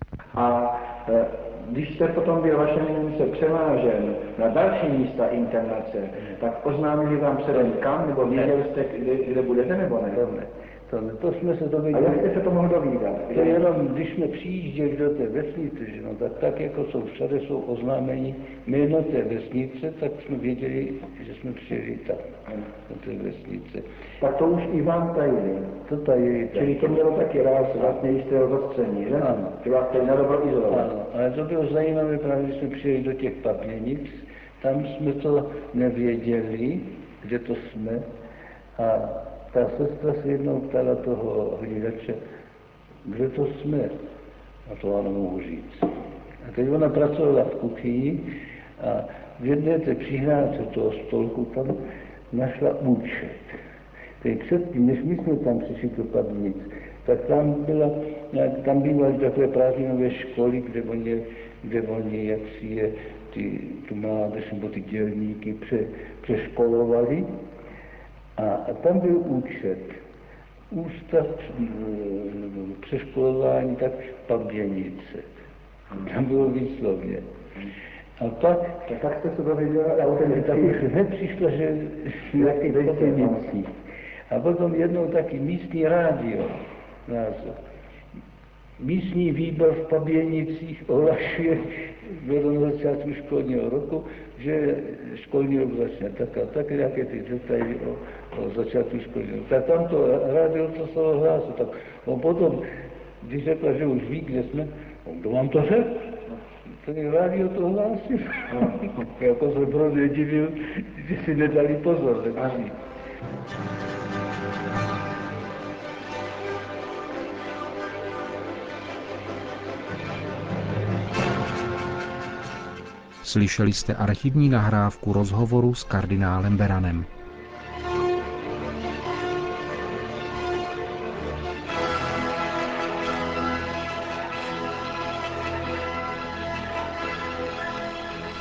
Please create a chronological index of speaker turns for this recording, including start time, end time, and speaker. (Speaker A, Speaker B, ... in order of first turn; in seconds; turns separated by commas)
Speaker A: 0.3-10.1, Speaker B: 6.1-6.4, Speaker B: 7.5-8.7, Speaker B: 10.1-12.5, Speaker A: 11.9-13.6, Speaker B: 13.3-23.9, Speaker A: 24.2-25.7, Speaker B: 25.8-28.0, Speaker A: 26.5-30.9, Speaker B: 29.1-29.6, Speaker B: 30.7-38.1, Speaker B: 38.8-42.2, Speaker B: 43.0-44.0, Speaker B: 44.7-45.9, Speaker B: 46.4-48.3, Speaker B: 48.8-53.6, Speaker B: 54.2-67.3, Speaker B: 68.4-70.0, Speaker B: 70.7-75.3, Speaker B: 75.9-77.3, Speaker B: 78.2-79.0, Speaker A: 79.0-80.7, Speaker B: 79.8-83.7, Speaker A: 82.4-83.5, Speaker B: 84.3-87.6, Speaker B: 88.8-102.7, Speaker B: 103.2-112.8, Speaker C: 123.2-127.1